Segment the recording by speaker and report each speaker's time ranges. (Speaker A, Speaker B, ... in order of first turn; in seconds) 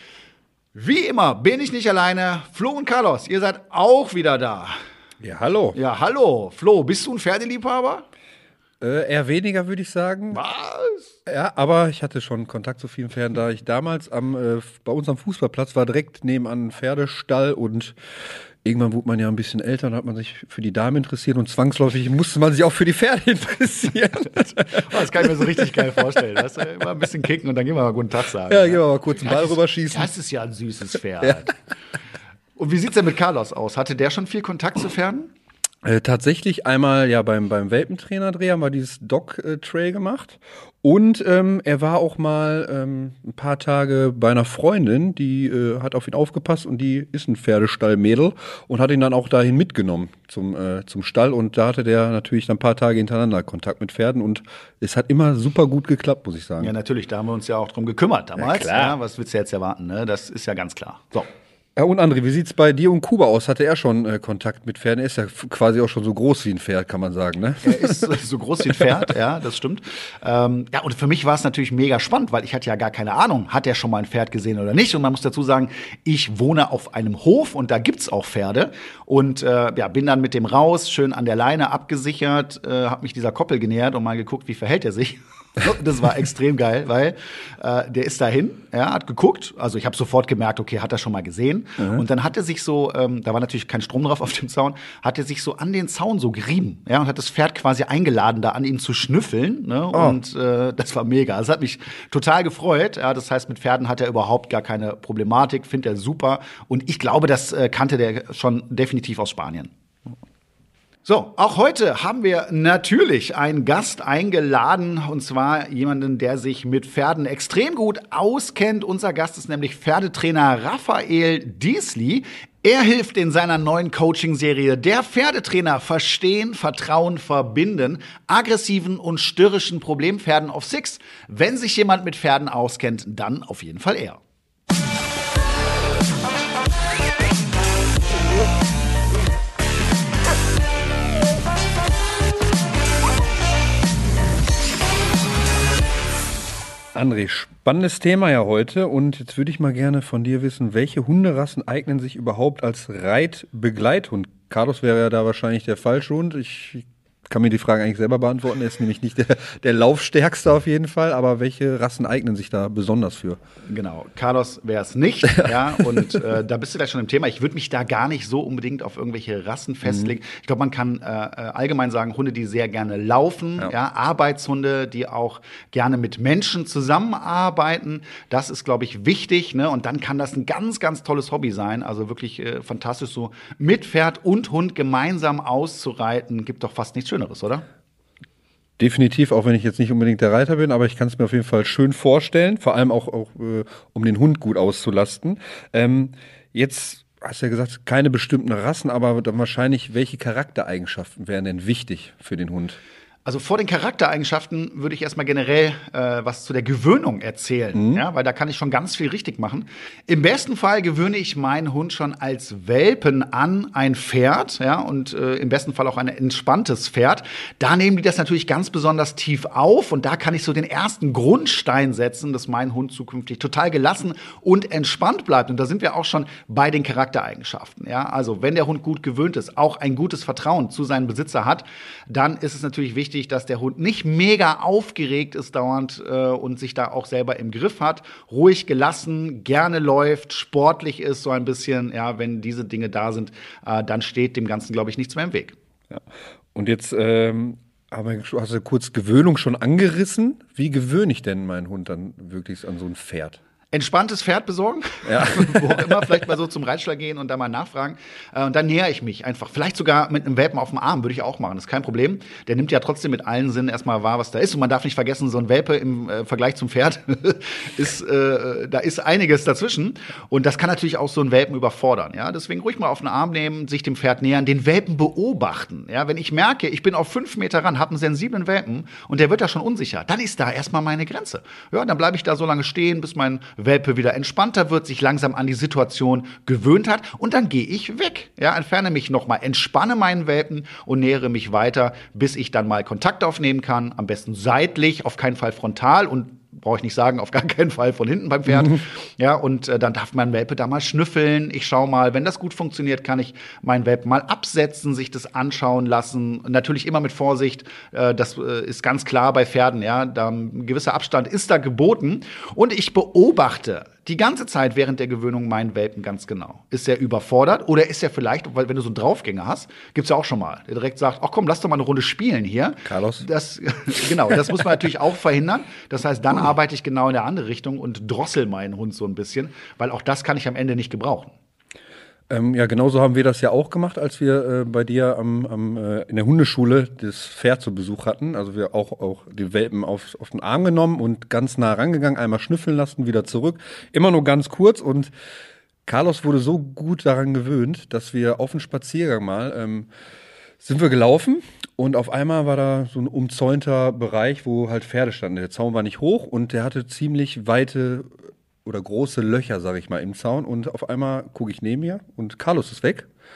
Speaker A: 0.7-4.8, 5.7-8.0, 10.3-11.1, 24.7-31.6, 32.6-35.3, 56.6-61.3, 67.6-109.7, 111.0-134.2, 163.7-187.6, 203.2-245.6, 253.7-331.3
Speaker B: 5.2-5.8, 8.8-10.4, 11.2-17.9, 18.6-25.7, 28.5-30.1, 35.8-56.7, 58.4-58.9, 61.8-68.1, 99.9-100.2, 146.9-163.4, 188.8-202.8, 207.8-208.0, 246.5-253.4, 255.0-256.2, 322.8-323.3, 332.3-345.1, 345.9-349.9, 350.6-358.1, 358.6-363.1